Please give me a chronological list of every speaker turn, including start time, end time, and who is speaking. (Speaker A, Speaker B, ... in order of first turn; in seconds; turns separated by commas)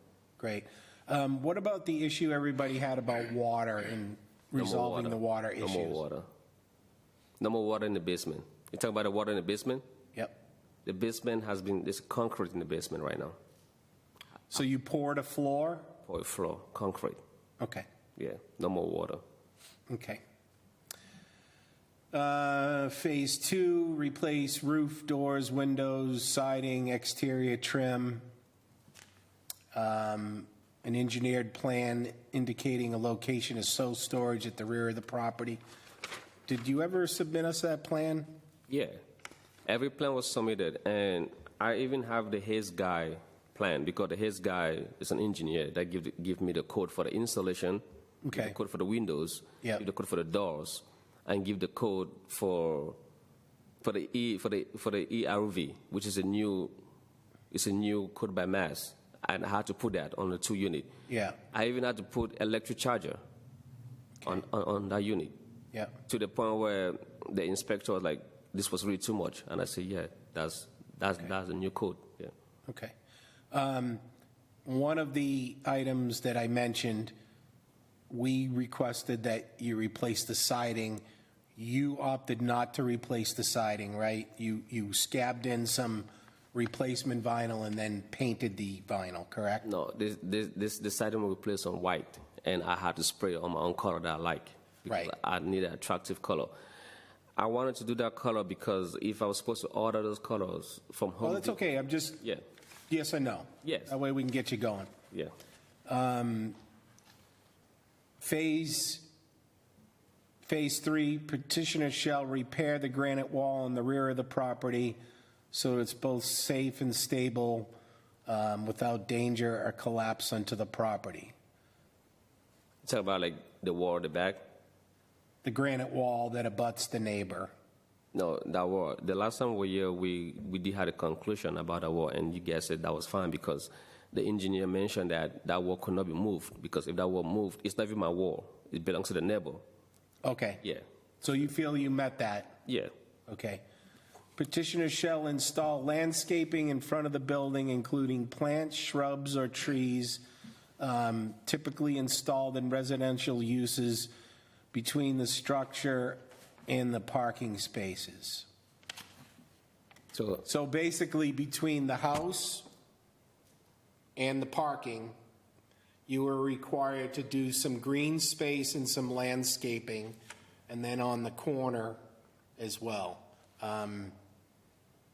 Speaker A: 0.4-6.0, Speaker B: 4.5-6.2, Speaker B: 7.4-9.8, Speaker B: 10.8-13.4, Speaker A: 14.5-15.9, Speaker B: 16.1-17.2, Speaker A: 17.6-17.9, Speaker B: 18.2-19.2, Speaker A: 19.9-20.2, Speaker A: 22.1-28.2, Speaker A: 29.7-35.6, Speaker A: 36.5-38.3, Speaker B: 38.7-39.0, Speaker B: 39.7-53.0, Speaker A: 48.2-48.5, Speaker B: 53.8-56.8, Speaker B: 57.5-60.9, Speaker A: 61.1-61.4, Speaker B: 61.5-63.2, Speaker B: 64.2-65.3, Speaker B: 66.1-72.3, Speaker A: 72.7-72.9, Speaker A: 73.5-74.0, Speaker A: 74.7-77.1, Speaker A: 78.1-81.0, Speaker A: 81.6-89.7, Speaker B: 89.6-96.5, Speaker B: 97.4-101.6, Speaker A: 101.2-102.2, Speaker A: 102.9-104.9, Speaker B: 103.6-103.9, Speaker A: 105.9-106.6, Speaker A: 108.2-109.1, Speaker A: 110.4-115.0, Speaker A: 115.5-117.7, Speaker A: 118.3-121.3, Speaker B: 122.8-124.4, Speaker A: 125.4-127.5, Speaker B: 128.1-139.6, Speaker A: 140.2-140.6, Speaker A: 141.2-142.6, Speaker B: 142.7-142.9, Speaker A: 143.3-143.6, Speaker A: 144.4-150.2, Speaker A: 150.8-154.1, Speaker A: 154.7-158.5, Speaker B: 160.1-160.4, Speaker A: 160.4-162.7, Speaker A: 164.2-165.2, Speaker A: 166.1-170.2, Speaker A: 170.7-172.0, Speaker A: 172.6-174.2